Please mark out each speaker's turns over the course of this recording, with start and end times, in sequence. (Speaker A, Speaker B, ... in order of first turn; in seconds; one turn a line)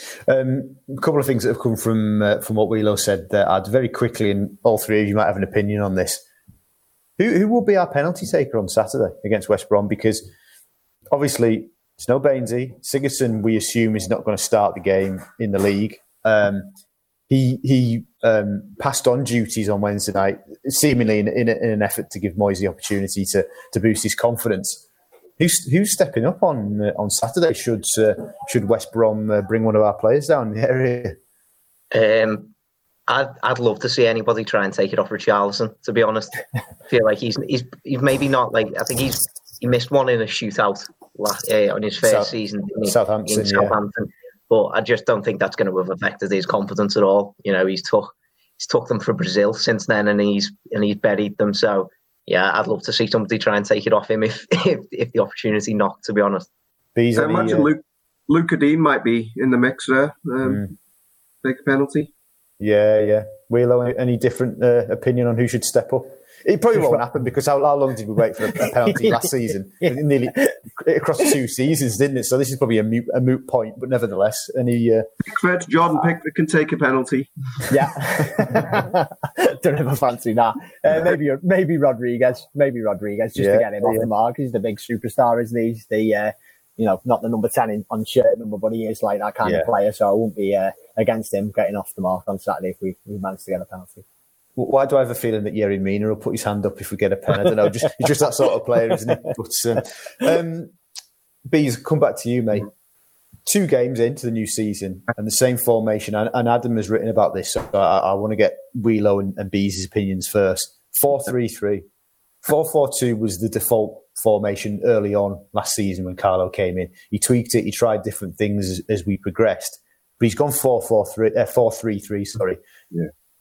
Speaker A: 0.2-6.2
Speaker A: 7.2-10.3
Speaker A: 11.1-16.7
Speaker A: 17.3-24.8
Speaker A: 25.4-31.1
Speaker B: 31.9-32.5
Speaker B: 33.1-56.5
Speaker A: 42.0-43.8
Speaker A: 57.0-57.7
Speaker C: 57.1-60.7
Speaker C: 61.4-62.1
Speaker A: 62.6-75.0
Speaker C: 75.2-77.3
Speaker D: 77.7-94.0
Speaker A: 83.4-84.0
Speaker A: 94.5-100.7
Speaker A: 101.5-102.7
Speaker A: 103.5-111.8
Speaker A: 112.4-122.6